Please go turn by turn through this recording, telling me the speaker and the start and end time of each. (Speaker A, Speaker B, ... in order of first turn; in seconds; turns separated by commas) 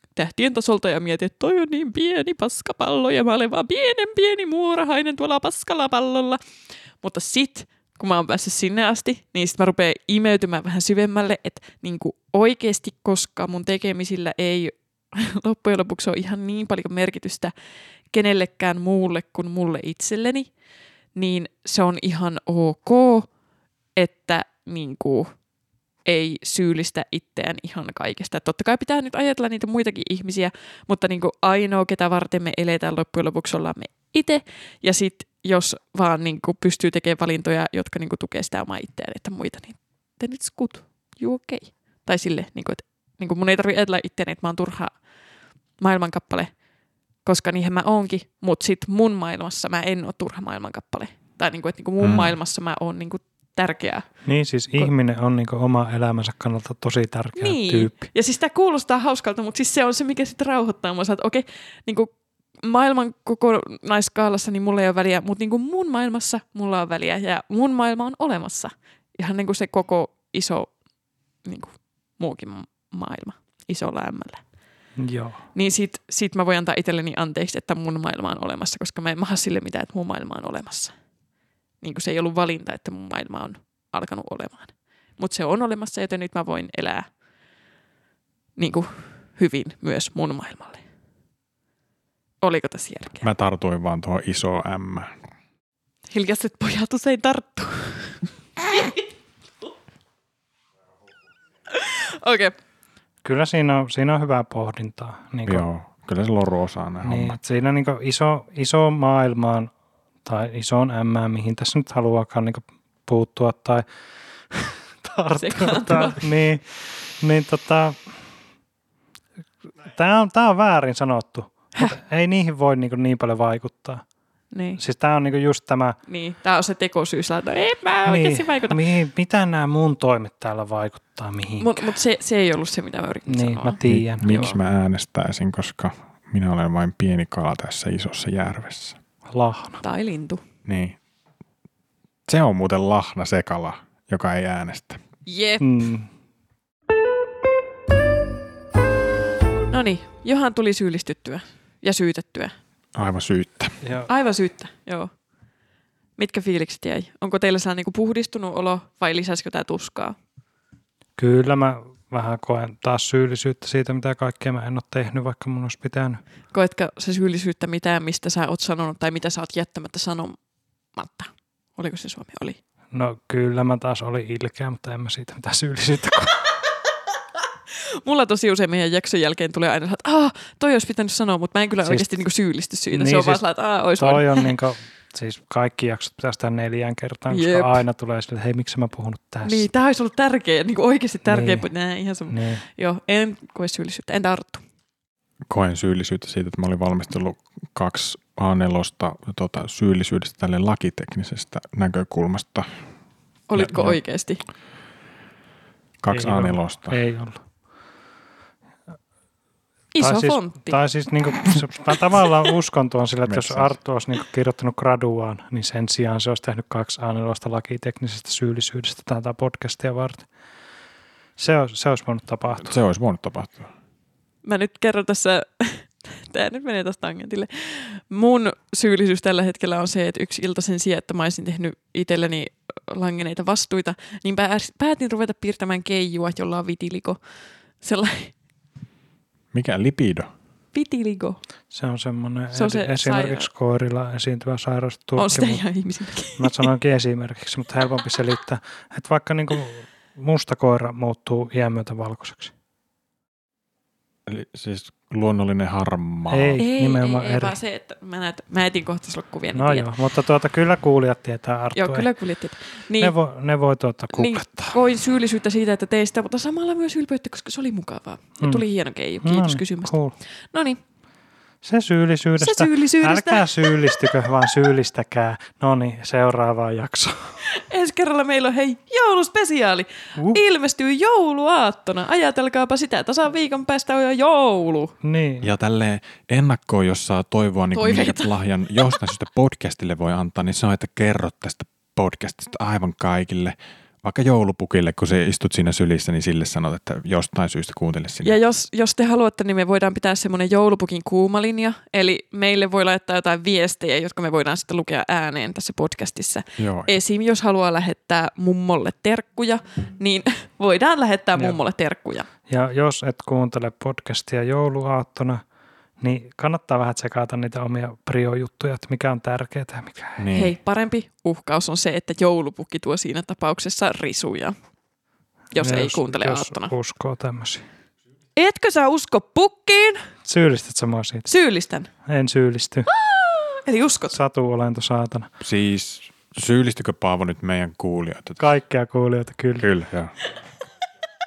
Speaker A: 0.1-6.4, Speaker A: 7.0-17.5, Speaker A: 18.1-20.5, Speaker A: 21.1-23.3, Speaker A: 24.0-25.3, Speaker A: 26.1-45.0, Speaker A: 45.8-46.5, Speaker A: 47.2-54.1, Speaker B: 52.0-52.4, Speaker C: 54.3-58.0, Speaker A: 57.4-62.1, Speaker A: 62.6-70.7, Speaker A: 71.5-74.4, Speaker C: 75.0-75.4, Speaker A: 75.5-80.9, Speaker A: 81.8-87.1, Speaker A: 88.6-90.8, Speaker A: 92.4-93.3, Speaker B: 93.2-95.2, Speaker A: 96.1-99.0, Speaker A: 101.7-102.5, Speaker C: 103.2-105.7, Speaker B: 105.5-107.4, Speaker C: 107.0-109.7, Speaker C: 110.2-113.9, Speaker C: 114.5-118.1, Speaker A: 115.3-116.2, Speaker C: 119.8-124.0, Speaker A: 124.5-124.8, Speaker C: 124.8-126.0, Speaker A: 126.1-128.8, Speaker C: 128.1-132.0, Speaker A: 131.6-134.6, Speaker C: 133.3-134.3, Speaker B: 133.8-139.0, Speaker C: 139.3-139.8, Speaker A: 139.8-140.4, Speaker B: 140.7-141.0, Speaker B: 142.3-145.0, Speaker A: 145.3-145.7, Speaker C: 145.6-146.1, Speaker A: 149.7-152.5, Speaker B: 152.9-153.8, Speaker C: 153.8-154.1, Speaker A: 154.1-155.1, Speaker A: 156.2-160.2, Speaker C: 161.2-166.2, Speaker A: 166.5-170.4, Speaker A: 171.0-172.6, Speaker C: 172.9-176.6, Speaker A: 177.7-184.5, Speaker C: 182.9-183.4, Speaker C: 184.0-189.7, Speaker A: 187.3-187.8, Speaker A: 189.4-194.6, Speaker C: 191.3-191.7, Speaker C: 192.3-192.6, Speaker B: 195.5-202.7, Speaker A: 203.5-204.4, Speaker B: 203.6-204.0, Speaker B: 206.0-207.0, Speaker C: 206.1-207.4, Speaker A: 209.9-210.8, Speaker C: 210.0-220.3, Speaker B: 213.3-213.7, Speaker C: 221.4-222.8, Speaker B: 222.6-223.7, Speaker A: 224.4-237.2, Speaker A: 237.8-238.3, Speaker B: 239.5-240.3, Speaker A: 240.7-241.4, Speaker C: 241.7-245.6, Speaker A: 242.5-243.5, Speaker A: 245.2-246.7, Speaker C: 246.4-252.5, Speaker B: 254.3-256.6, Speaker C: 256.3-257.6, Speaker A: 256.6-259.9, Speaker C: 259.5-262.1, Speaker A: 261.8-263.1, Speaker C: 263.0-264.8, Speaker A: 264.1-270.0, Speaker C: 269.2-270.1, Speaker A: 270.5-270.8, Speaker C: 271.6-277.4, Speaker A: 272.4-274.1, Speaker A: 277.4-284.9, Speaker C: 280.2-280.4, Speaker C: 285.0-285.5, Speaker B: 285.4-298.4, Speaker A: 287.7-288.3, Speaker A: 298.2-312.3, Speaker B: 306.6-306.9, Speaker C: 312.5-315.4, Speaker C: 316.0-320.3, Speaker B: 320.2-320.6, Speaker A: 320.3-324.6, Speaker A: 325.5-326.7, Speaker C: 325.6-327.6, Speaker A: 328.4-330.0, Speaker C: 330.2-331.3, Speaker A: 331.3-331.9, Speaker C: 332.1-332.9, Speaker A: 332.9-334.2, Speaker C: 334.1-335.3, Speaker B: 335.4-338.4, Speaker C: 338.4-339.7, Speaker B: 339.6-340.1